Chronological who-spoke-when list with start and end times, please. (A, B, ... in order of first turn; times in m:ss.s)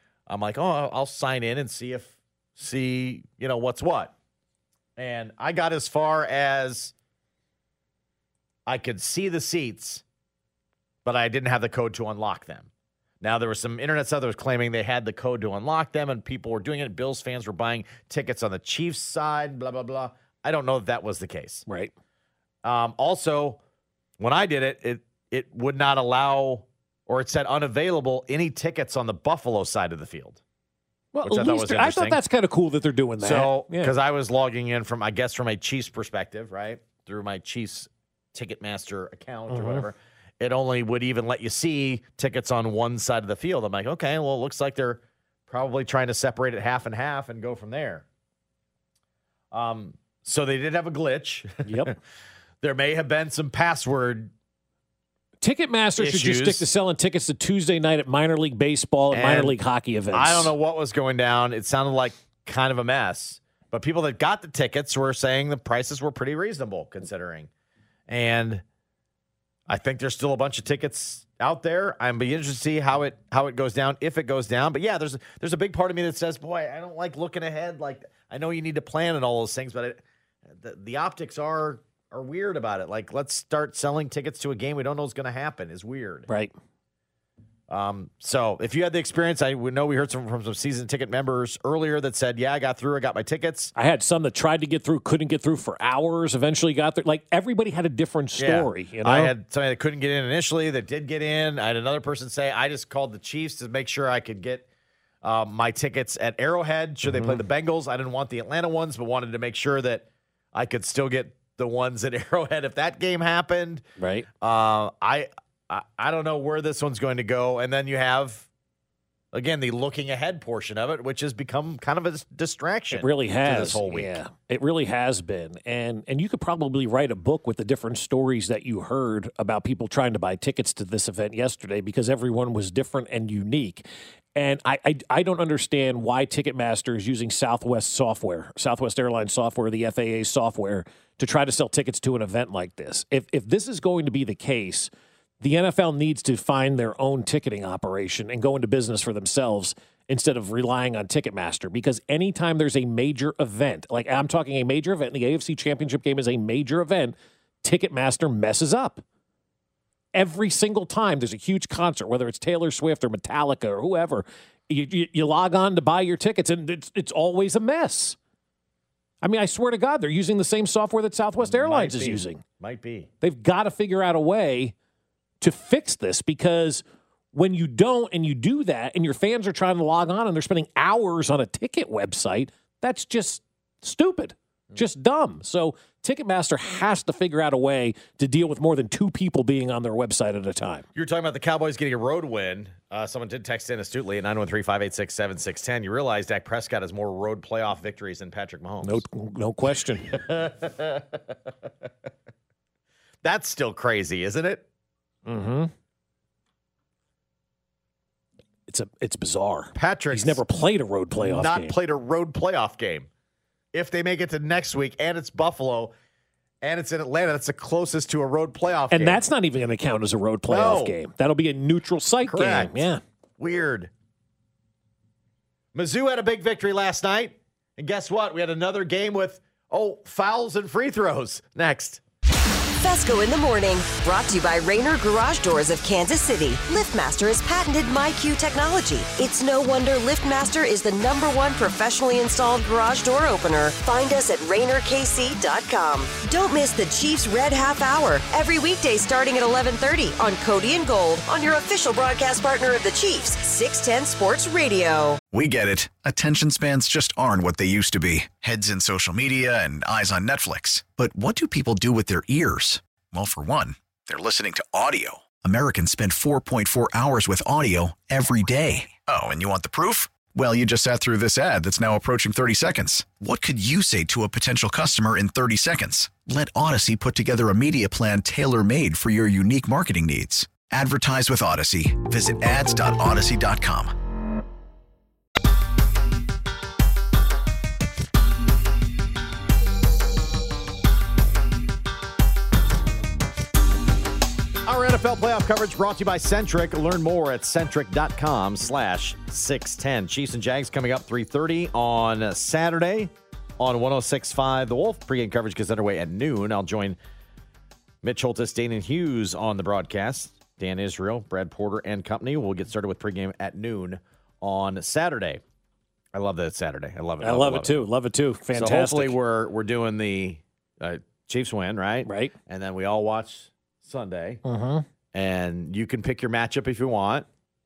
0:00.3-0:04.1 A
0:05.0-0:06.9 A
0:08.6-0:10.0 A
0:11.0-0:12.7 A
0:13.2-0:21.6 A
0:21.7-0:21.9 B
0:22.6-0:23.6 A
0:24.2-0:30.4 A
0:31.1-0:33.9 B
0:31.2-0:32.2 A
0:33.2-0:48.0 A
0:39.5-0:39.8 B
0:49.5-0:52.0 A
0:51.6-0:51.9 B
0:52.6-0:54.3 A
0:55.4-1:00.5 B
0:56.0-0:56.7 A
0:59.1-0:59.6 A
1:00.1-1:07.5 A
1:08.1-1:08.6 A
1:09.7-1:26.3 A
1:27.7-1:33.7 A
1:33.7-1:39.3 B
1:38.4-1:44.7 A
1:45.2-1:53.8 A
1:47.0-1:47.4 B
1:54.0-1:54.3 B
1:54.4-1:58.5 A
1:59.3-2:04.2 A
2:02.9-2:39.0 B
2:40.1-2:48.2 B
2:49.2-2:52.4 B
2:51.4-2:53.1 A
2:53.2-2:54.7 B
2:55.4-3:10.8 B
3:10.9-3:19.0 A
3:18.8-3:20.2 B
3:20.0-3:21.3 A
3:23.2-3:24.6 A
3:25.2-3:25.7 B
3:28.7-3:31.8 B
3:29.7-3:30.4 A
3:31.2-3:33.1 A
3:33.7-3:35.9 A
3:36.6-3:39.2 A
3:38.9-3:43.0 B
3:40.5-3:41.0 A
3:42.2-3:42.9 A
3:43.4-3:43.9 A
3:45.7-3:52.0 A
3:52.8-4:15.2 C
4:15.3-4:43.9 D
4:54.6-5:07.0 A
5:08.0-5:15.4 A
5:16.1-5:17.8 A
5:17.2-5:19.2 B
5:18.5-5:24.4 A
5:22.0-5:22.3 B
5:24.4-5:24.8 B
5:25.1-5:27.3 A